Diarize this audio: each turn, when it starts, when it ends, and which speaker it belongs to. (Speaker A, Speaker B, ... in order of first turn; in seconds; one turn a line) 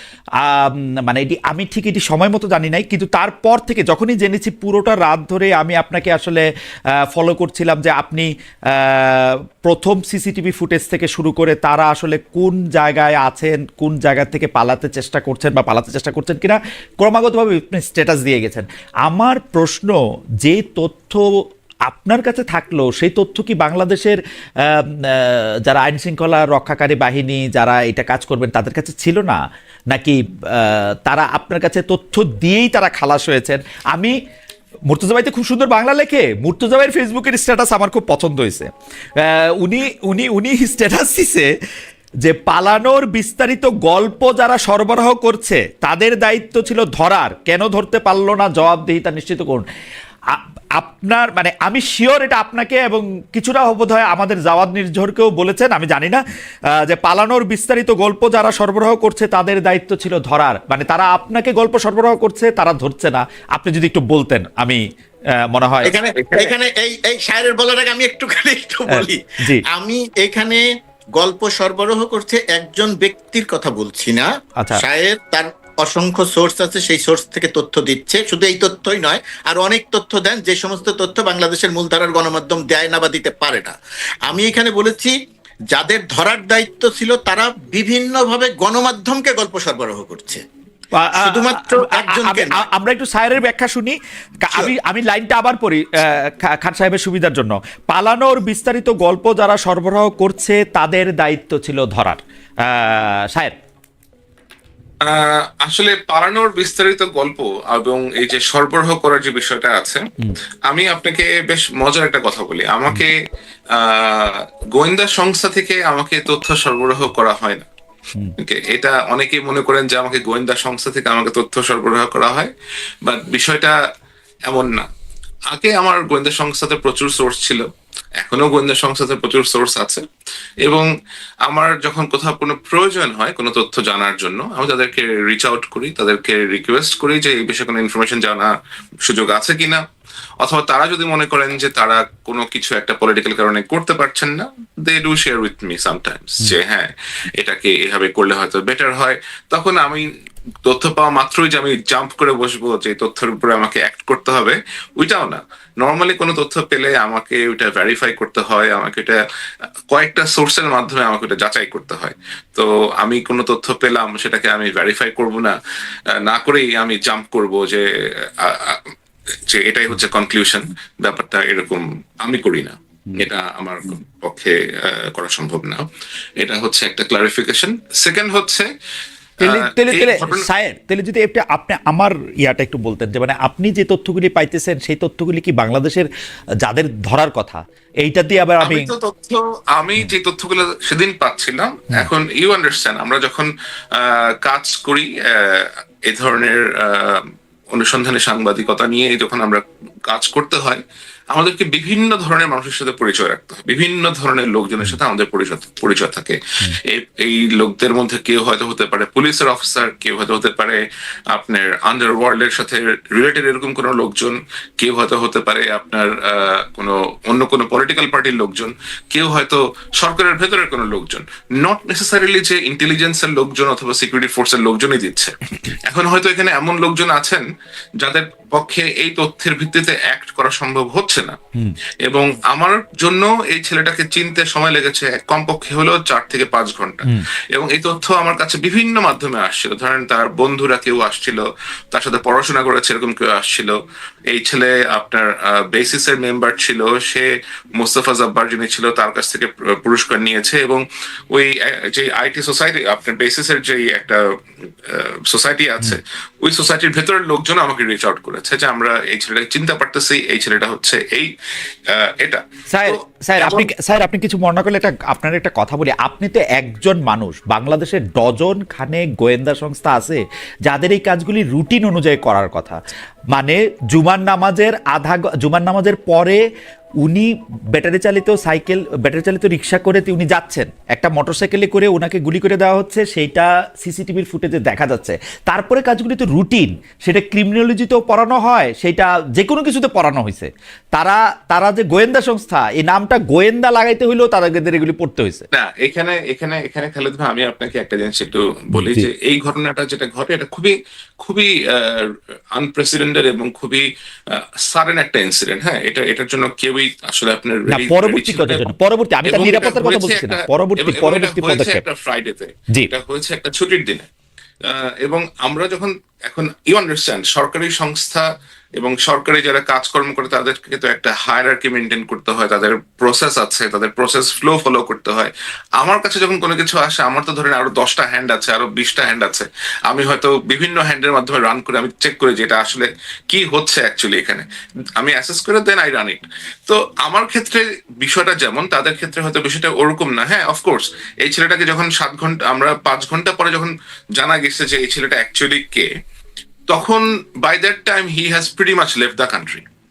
Speaker A: 0.4-6.4
Speaker A: 7.0-21.2
Speaker A: 21.9-34.1
Speaker A: 34.9-41.5
Speaker A: 42.2-49.6
Speaker A: 50.3-56.2
Speaker A: 56.7-64.8
Speaker A: 65.5-65.9
Speaker B: 65.8-69.2
Speaker A: 68.9-69.6
Speaker B: 69.7-70.6
Speaker B: 71.2-85.1
Speaker B: 85.7-90.4
Speaker A: 90.9-103.5
Speaker B: 91.2-92.6
Speaker C: 105.0-110.0
Speaker C: 110.7-113.2
Speaker C: 113.7-117.7
Speaker C: 118.4-122.5
Speaker C: 123.0-123.8
Speaker C: 124.5-124.8
Speaker C: 125.5-127.6
Speaker C: 128.2-130.0
Speaker C: 131.5-138.5
Speaker C: 139.1-139.8
Speaker C: 140.4-150.0
Speaker C: 150.6-159.2
Speaker C: 159.9-165.5
Speaker C: 166.2-168.9
Speaker C: 169.5-175.8
Speaker C: 176.4-178.7
Speaker A: 179.4-186.1
Speaker C: 179.4-180.4
Speaker A: 186.6-188.9
Speaker C: 188.6-197.2
Speaker C: 197.7-210.8
Speaker C: 211.3-227.4
Speaker C: 228.0-231.4
Speaker C: 232.0-243.8
Speaker C: 244.3-247.3
Speaker C: 247.8-254.2
Speaker C: 254.9-261.3
Speaker C: 261.9-263.7
Speaker A: 262.7-272.8
Speaker A: 273.3-276.4
Speaker A: 277.0-295.4
Speaker C: 295.5-308.7
Speaker A: 298.7-299.1
Speaker A: 307.7-311.8
Speaker C: 309.3-314.1
Speaker C: 314.7-318.3
Speaker C: 318.8-334.4
Speaker C: 335.0-345.9
Speaker C: 346.7-349.6